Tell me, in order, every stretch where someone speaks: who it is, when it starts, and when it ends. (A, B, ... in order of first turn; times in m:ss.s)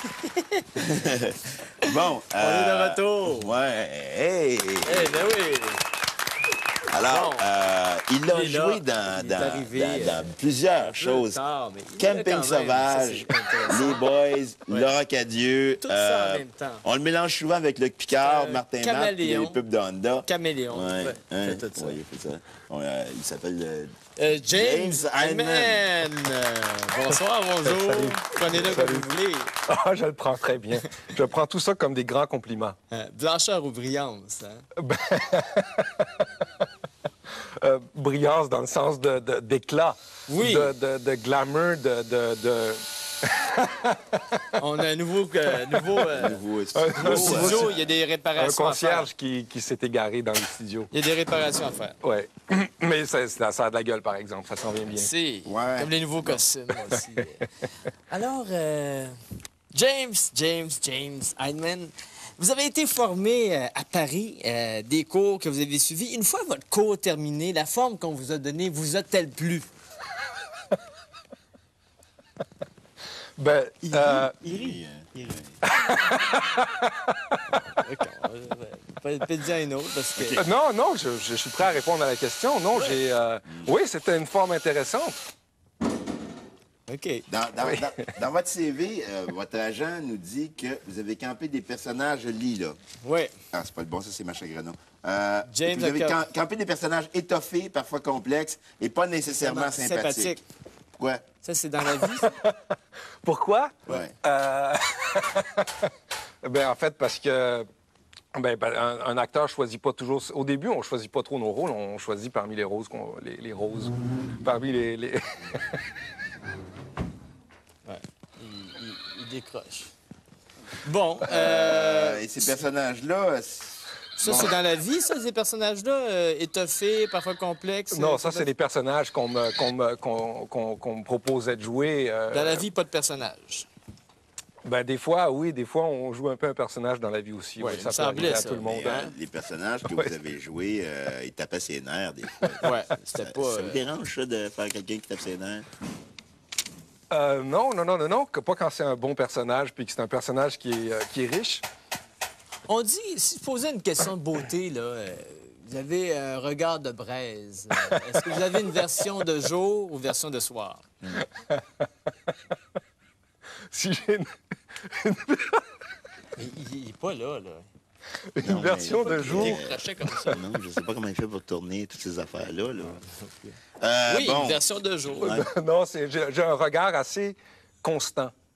0:00.2-0:00.6 A
0:00.8-0:05.4 B
0:02.4-0:03.5 A
0:04.8-0:05.8 A
0:06.9-0:11.4 B
0:07.0-0:07.5 A
0:08.2-0:14.0 A
0:12.0-0:23.9 B
0:15.8-0:16.8 A
0:18.2-0:19.6 A
0:20.2-0:22.0 A
0:24.2-0:29.5 A
0:24.5-0:25.9 B
0:27.6-0:29.1 C
0:29.7-0:32.8 C
0:30.7-0:31.1 A
0:32.9-0:34.6 A
0:34.8-0:36.6 C
0:37.6-0:44.6 C
0:40.3-0:40.7 A
0:44.6-0:46.4 A
0:45.5-0:46.0 C
0:46.1-0:47.9 B
0:46.7-0:47.7 C
0:47.0-0:49.1 A
0:48.3-0:50.9 C
0:50.9-0:52.0 A
0:52.0-0:55.1 C
0:54.9-0:57.5 A
0:55.4-0:56.4 B
0:56.9-0:57.4 C
0:58.1-0:59.1 A
0:59.7-1:09.7 A
1:13.4-1:14.3 C
1:13.8-1:15.4 A
1:14.4-1:15.6 B
1:15.6-1:17.4 C
1:17.5-1:20.4 A
1:20.1-1:20.5 B
1:20.4-1:25.2 C
1:22.7-1:23.0 A
1:26.9-1:27.2 A
1:27.3-1:32.8 B
1:27.6-1:28.1 C
1:33.0-1:33.3 A
1:33.5-1:40.3 B
1:35.5-1:36.2 A
1:39.4-1:40.4 A
1:41.0-1:41.2 B
1:41.4-1:42.3 A
1:42.0-1:45.9 C
1:43.9-1:44.1 B
1:46.4-1:47.7 C
1:48.3-1:55.8 C
1:57.8-1:59.9 A
2:00.8-2:02.5 A
2:01.2-2:04.5 B
2:04.2-2:08.5 A
2:07.9-2:12.6 C
2:12.3-2:13.7 A
2:14.6-2:19.0 C
2:17.6-2:19.1 A
2:18.5-2:25.6 B
2:19.8-2:20.1 C
2:22.4-2:22.8 C
2:22.6-2:23.8 A
2:27.1-2:31.6 C
2:32.7-2:40.8 A
2:41.1-2:42.3 C
2:43.7-2:44.3 C
2:44.8-2:45.6 C
2:46.4-2:47.7 A
2:48.3-2:50.4 C
2:48.4-2:53.0 B
2:48.9-2:50.4 A
2:53.0-2:55.4 A
2:53.8-2:54.6 B
2:55.2-2:55.5 B
2:55.2-2:58.3 C